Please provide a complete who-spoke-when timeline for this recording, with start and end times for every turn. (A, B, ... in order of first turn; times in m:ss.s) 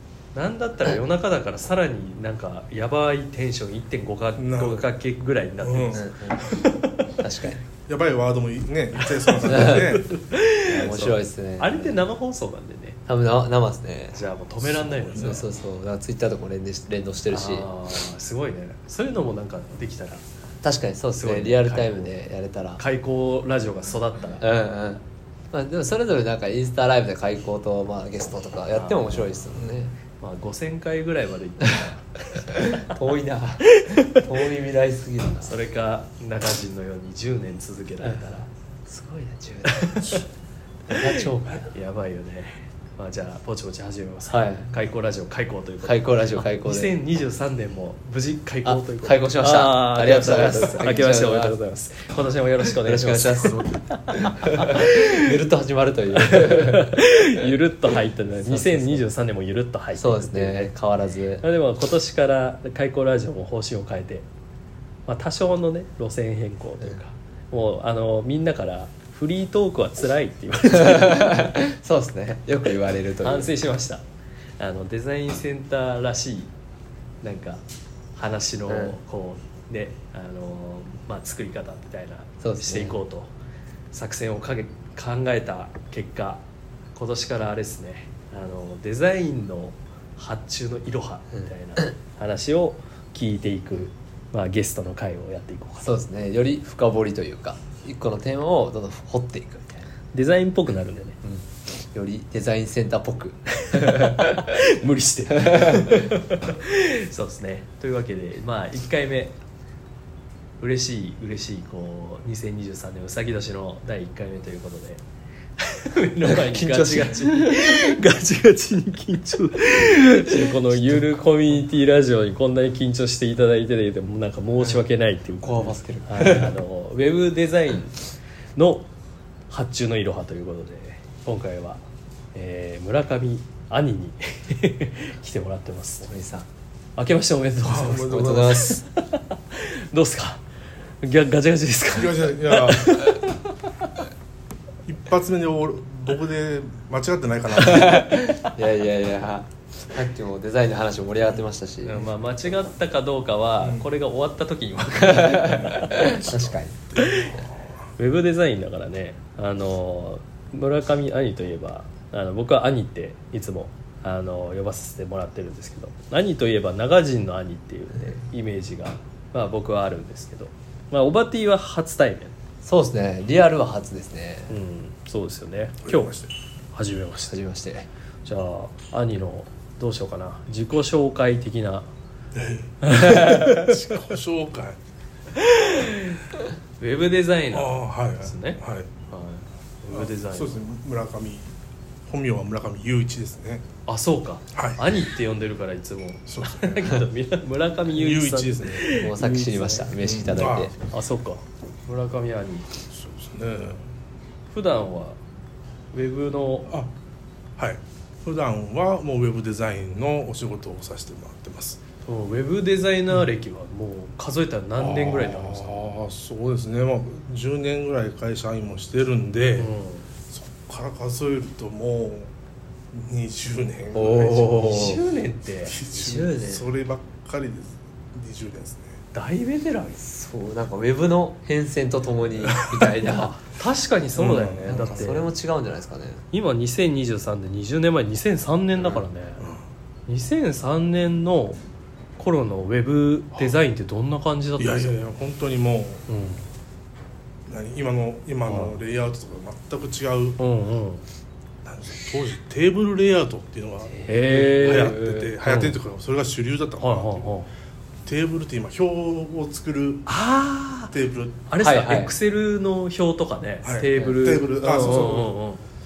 0:00.4-0:07.2 A
0:04.4-0:04.9 B
0:05.6-0:06.6 B
0:05.9-0:06.4 C
0:07.2-0:07.6 C
0:07.9-0:10.1 B
0:09.0-0:13.0 A
0:09.4-0:10.0 C
0:10.6-0:12.0 C
0:13.1-0:14.2 C
0:14.1-0:15.4 A
0:14.6-0:15.4 B
0:15.2-0:17.7 C
0:17.3-0:20.2 A
0:20.6-0:22.8 C
0:21.2-0:22.1 A
0:22.8-0:24.4 A
0:24.4-0:29.9 C
0:28.7-0:29.4 A
0:30.0-0:32.8 A
0:31.6-0:31.9 C
0:32.5-0:35.6 C
0:33.7-0:34.3 A
0:35.4-0:38.5 A
0:38.0-0:40.2 C
0:39.6-0:40.2 A
0:40.9-0:41.7 C
0:40.9-0:55.3 A
0:44.3-0:44.7 C
0:45.8-0:46.9 C
0:48.6-0:51.6 C
0:52.6-0:57.0 C
0:56.2-1:00.7 A
0:58.5-0:59.1 C
1:00.0-1:01.4 C
1:01.4-1:04.3 A
1:05.1-1:11.5 A
1:10.7-1:13.5 C
1:13.2-1:14.0 A
1:14.6-1:16.5 A
1:17.2-1:17.6 A
1:18.2-1:23.3 A
1:18.7-1:19.0 C
1:22.4-1:23.0 C
1:23.9-1:26.4 A
1:27.0-1:36.0 A
1:31.3-1:31.9 C
1:35.8-1:39.9 C
1:40.1-1:41.2 A
1:41.2-1:44.6 C
1:43.6-1:49.3 A
1:45.3-1:46.1 C
1:50.6-1:55.0 A
1:55.6-2:08.0 A
1:56.2-1:57.6 C
2:00.3-2:01.1 C
2:05.4-2:06.6 C
2:08.6-2:08.9 A
2:09.5-2:11.8 A
2:12.3-2:16.1 A
2:16.0-2:16.5 C
2:17.0-2:20.4 A
2:17.6-2:18.6 B
2:18.1-2:18.8 C
2:21.0-2:23.9 A
2:21.9-2:23.0 B
2:24.9-2:28.1 B
2:27.6-2:32.1 C
2:31.8-2:36.3 A
2:33.6-2:33.9 B
2:35.0-2:36.8 C
2:36.9-2:37.7 B
2:37.0-2:37.4 A
2:38.0-2:52.3 A
2:52.6-2:54.6 C
2:54.5-2:56.1 A
2:55.8-2:56.3 B
2:56.7-2:57.4 A
2:57.3-2:57.9 C
2:58.2-3:01.9 A
3:02.3-3:04.8 B
3:02.8-3:04.0 A
3:05.4-3:06.2 A
3:06.8-3:08.6 A
3:07.5-3:08.9 B
3:09.1-3:10.6 A
3:09.9-3:11.5 B
3:12.1-3:13.6 B
3:13.9-3:19.9 A
3:14.5-3:14.9 B
3:16.3-3:16.9 B
3:17.9-3:18.9 B
3:18.9-3:20.8 C
3:20.0-3:20.7 B
3:20.9-3:22.7 A
3:22.9-3:23.8 B
3:24.5-3:25.2 A
3:25.9-3:26.7 A
3:27.6-3:31.8 B
3:32.1-3:35.8 A
3:34.8-3:39.7 B
3:39.6-3:40.0 A
3:40.3-3:42.3 B
3:42.9-3:45.0 B
3:43.9-3:45.0 C
3:44.6-3:45.8 A
3:45.6-3:49.0 B
3:45.8-3:46.7 C
3:49.1-3:50.0 A
3:50.0-3:53.4 C
3:52.4-3:52.9 B
3:53.0-3:55.3 A
3:54.2-3:55.1 B
3:54.7-3:56.2 C
3:56.3-3:59.4 A
4:00.1-4:01.6 A
4:02.2-4:04.9 A
4:04.6-4:06.1 B
4:06.1-4:06.4 A
4:07.5-4:10.4 B
4:08.5-4:08.8 A
4:10.4-4:11.0 A
4:11.6-4:14.0 B
4:13.9-4:15.3 C
4:14.1-4:15.8 A
4:14.6-4:17.3 B
4:16.8-4:17.5 A
4:18.0-4:20.1 B
4:20.1-4:20.9 A
4:20.9-4:21.5 B
4:21.5-4:25.7 A
4:21.6-4:22.1 C
4:23.6-4:25.4 B